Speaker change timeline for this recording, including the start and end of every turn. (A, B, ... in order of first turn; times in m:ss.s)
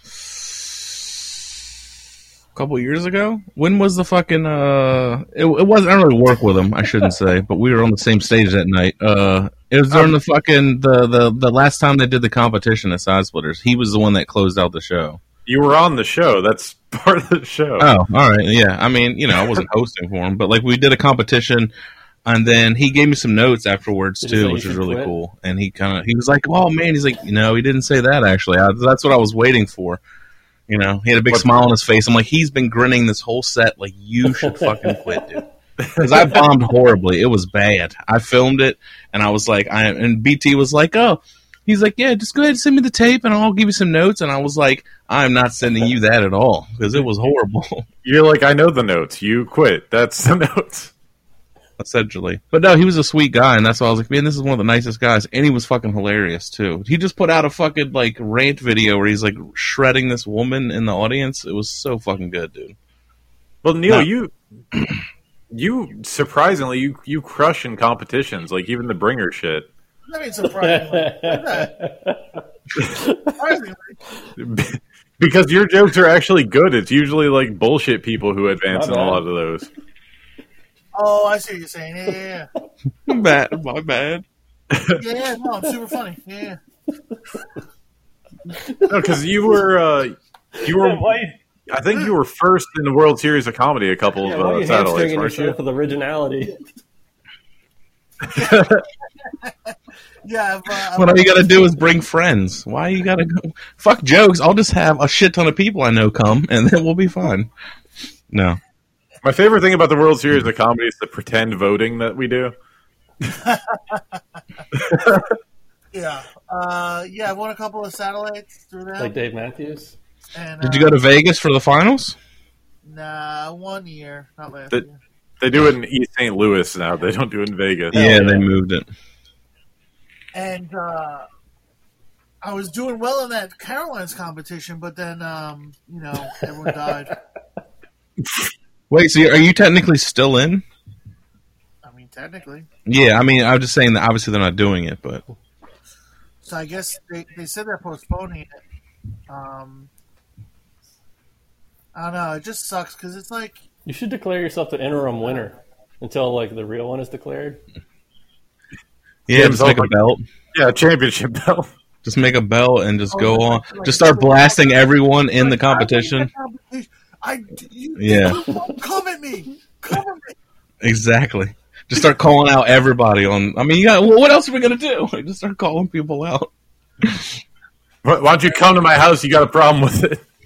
0:02.5-0:15.2 A
0:15.4-0:17.9 B
0:17.8-0:21.7 A
0:22.2-0:30.0 A
0:24.2-0:25.1 C
0:30.7-0:35.4 A
0:31.3-0:31.6 B
0:34.3-0:35.4 C
0:35.8-0:36.4 B
0:36.0-0:47.8 A
0:48.0-0:50.9 B
0:51.8-1:02.7 A
1:03.6-1:04.3 B
1:05.5-1:09.7 B
1:10.1-1:11.7 D
1:10.4-1:13.4 C
1:13.4-1:14.0 D
1:14.4-1:19.7 B
1:18.7-1:19.2 C
1:20.9-1:22.5 D
1:23.0-1:24.2 A
1:24.7-1:25.0 B
1:24.9-1:26.6 D
1:28.5-1:29.2 C
1:28.8-1:35.6 B
1:30.5-1:31.4 C
1:34.2-1:36.6 C
1:38.2-1:38.8 B
1:38.3-1:41.7 D
1:40.9-1:47.5 A
1:48.3-1:48.6 A
1:49.2-1:52.5 B
1:53.3-1:54.6 D
1:54.7-1:55.3 B
1:55.9-1:59.2 D
1:59.0-2:00.0 C
2:00.3-2:01.0 D
2:00.6-2:02.2 A
2:02.8-2:05.0 D
2:05.4-2:08.0 B
2:07.9-2:08.5 C
2:07.9-2:08.9 A
2:10.3-2:11.2 D
2:12.4-2:17.1 D
2:18.9-2:20.6 A
2:21.8-2:22.7 D
2:22.8-2:25.2 A
2:26.4-2:28.5 D
2:29.3-2:29.9 D
2:31.9-2:33.6 D
2:33.8-2:37.6 C
2:39.3-2:40.2 A
2:39.3-2:39.9 B
2:40.5-2:41.7 B
2:42.0-2:46.3 A
2:43.1-2:50.3 D
2:48.0-2:48.5 A
2:50.8-2:57.4 A
2:58.0-3:00.2 B